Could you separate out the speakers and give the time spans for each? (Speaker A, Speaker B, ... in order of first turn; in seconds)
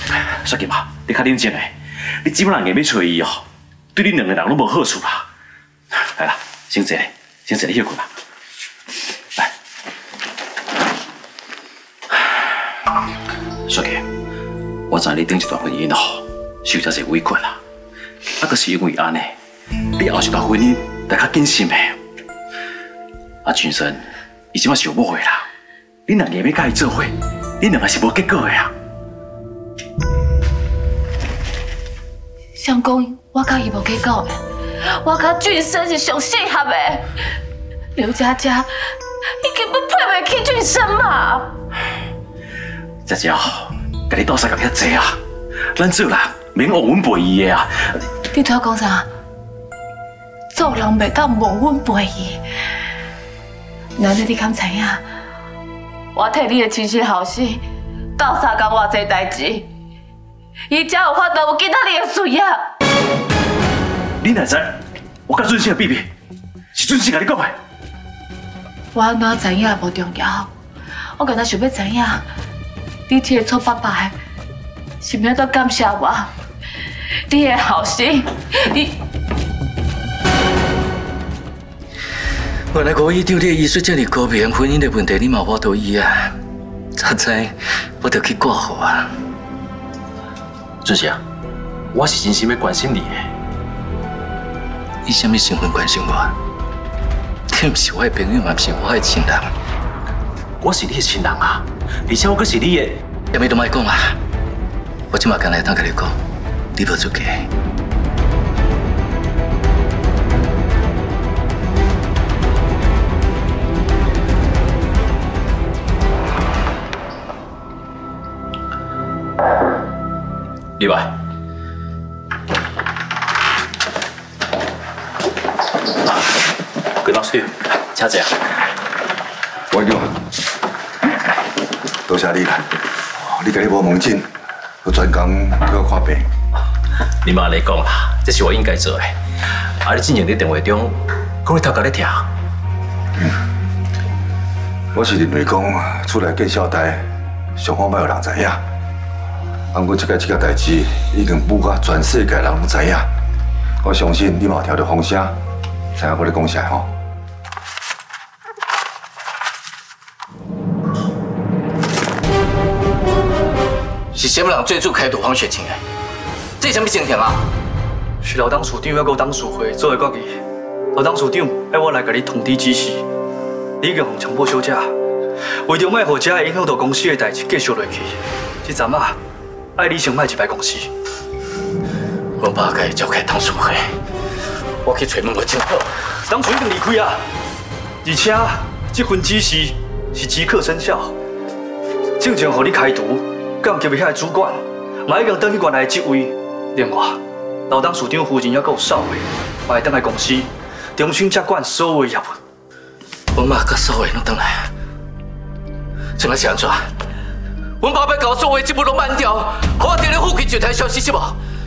Speaker A: 0.2-3.4, 4.0-5.3, 6.0-8.1, 13.7-14.1, 14.9-17.6, 18.4-19.4, 20.0-22.0, 23.4-25.5, 26.1-28.7, 43.1-45.2, 45.7-48.0, 64.2-66.1, 66.7-67.6, 90.8-91.2, 91.9-93.3, 100.6-103.0, 120.8-121.1, 127.0-128.4, 137.2-139.1, 139.8-142.3
Speaker B: 32.6-37.0, 38.0-38.7, 39.4-41.5, 48.3-49.1, 50.5-52.4, 54.0-55.0, 56.1-57.6, 58.2-59.7, 60.7-62.6, 68.9-70.5, 71.2-72.2, 73.1-74.2, 75.0-76.3, 77.3-79.0
Speaker C: 82.7-86.3, 87.0-89.1, 95.1-96.4, 97.5-99.5, 103.3-104.2, 105.1-106.2, 106.8-107.5, 164.1-165.8, 166.6-167.5, 182.4-183.9, 184.8-185.9, 203.3-204.7, 206.2-206.9, 207.8-211.4
Speaker D: 129.7-130.1, 132.1-134.3, 134.8-136.3, 144.9-148.6, 149.7-153.1, 153.8-155.3, 156.0-156.9
Speaker E: 168.2-170.4, 170.9-173.1, 173.8-174.9, 175.7-179.2, 179.8-180.9, 186.3-187.3, 188.0-191.2, 192.2-202.4